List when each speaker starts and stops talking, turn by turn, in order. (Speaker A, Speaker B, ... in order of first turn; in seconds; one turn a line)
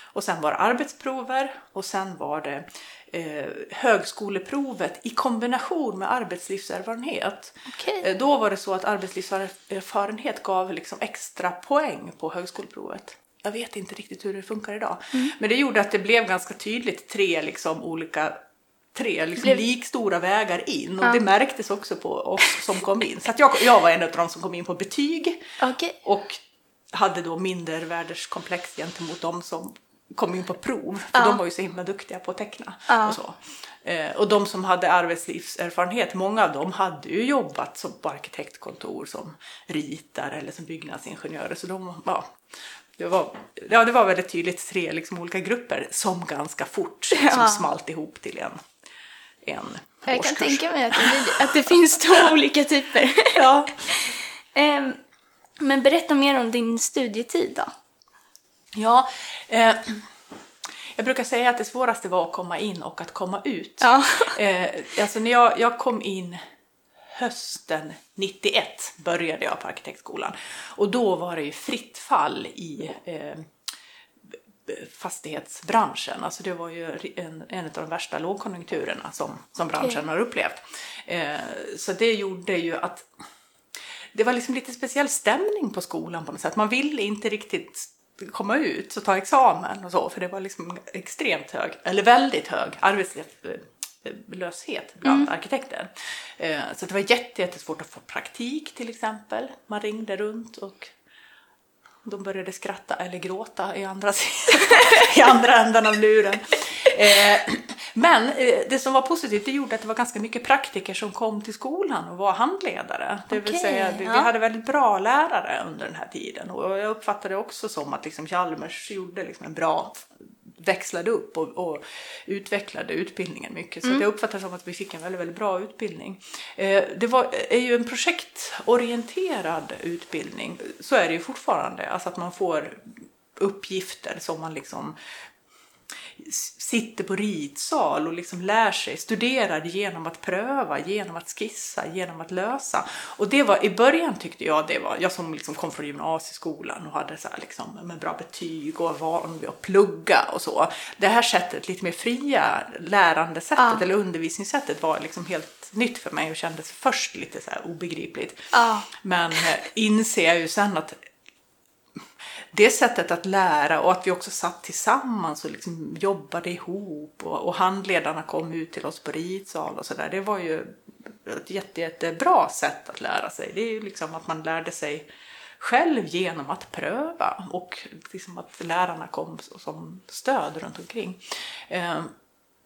Speaker A: 0.1-18.4
Speaker B: 7.7-8.1
Speaker A: 18.9-25.4
Speaker B: 25.6-26.0
Speaker A: 26.0-42.4
Speaker B: 32.9-33.2
Speaker A: 43.0-48.6
Speaker B: 47.1-47.7
Speaker A: 49.4-52.3
Speaker B: 50.1-55.0
Speaker A: 53.3-53.7
Speaker B: 55.6-57.7
Speaker A: 58.8-60.1
Speaker A: 61.0-66.4
Speaker B: 63.8-64.4
Speaker A: 67.1-73.5
Speaker A: 74.3-83.1
Speaker A: 84.1-100.9
Speaker A: 102.0-134.9
Speaker B: 104.5-105.1
Speaker B: 113.3-114.3
Speaker A: 136.1-161.0
Speaker B: 153.6-153.8
Speaker B: 158.5-158.9
Speaker A: 162.5-175.1
Speaker A: 175.6-182.1